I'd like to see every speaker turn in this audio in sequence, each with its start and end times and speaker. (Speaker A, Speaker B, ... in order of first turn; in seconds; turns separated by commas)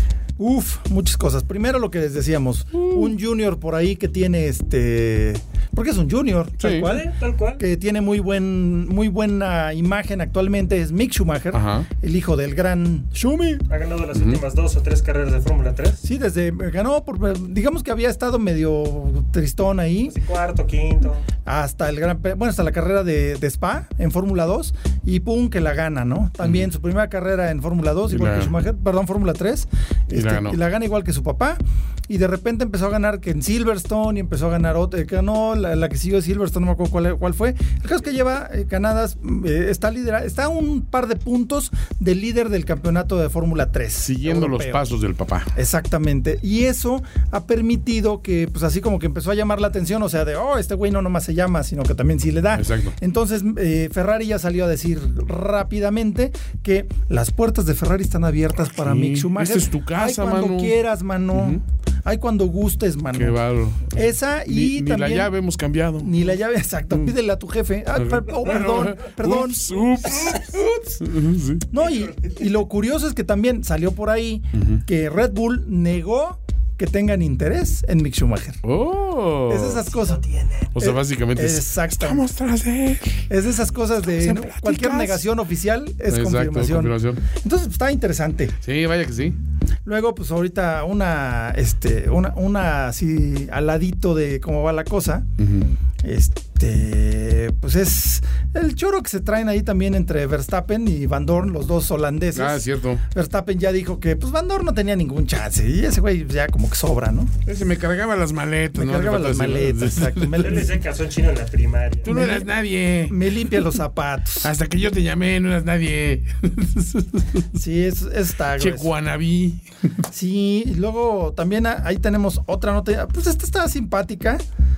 Speaker A: 0.4-7.1, Speaker B: 2.7-3.1, Speaker B: 6.6-6.9, Speaker C: 6.7-7.6, Speaker A: 7.6-13.7, Speaker B: 11.5-11.9, Speaker C: 13.7-16.0, Speaker B: 14.1-14.4, Speaker A: 16.0-20.2, Speaker C: 20.1-21.2, Speaker A: 21.5-44.9, Speaker B: 26.4-26.7, Speaker B: 28.1-28.5, Speaker B: 30.1-30.6, Speaker B: 44.0-45.5, Speaker A: 45.5-63.4, Speaker B: 52.5-53.0, Speaker B: 58.8-60.8, Speaker B: 61.3-61.6, Speaker B: 63.1-66.2, Speaker A: 63.9-65.3, Speaker A: 66.0-71.0, Speaker B: 68.0-71.7, Speaker C: 70.1-70.4, Speaker A: 71.7-78.6, Speaker C: 71.8-72.4, Speaker B: 74.5-74.8, Speaker B: 78.6-79.9, Speaker A: 79.5-80.2, Speaker C: 79.9-80.7, Speaker A: 80.8-82.3, Speaker B: 80.8-83.3, Speaker A: 83.3-88.6, Speaker B: 84.1-85.3, Speaker B: 86.1-87.2, Speaker B: 88.6-89.4, Speaker A: 89.9-95.3, Speaker B: 95.4-95.7, Speaker A: 96.0-107.3, Speaker B: 102.3-103.0, Speaker B: 107.5-110.6, Speaker A: 108.8-110.7, Speaker C: 110.3-112.2, Speaker B: 112.0-113.3, Speaker A: 112.1-112.5, Speaker A: 113.1-114.5, Speaker B: 114.4-117.5, Speaker A: 117.5-118.9, Speaker B: 118.6-119.6, Speaker A: 120.1-124.4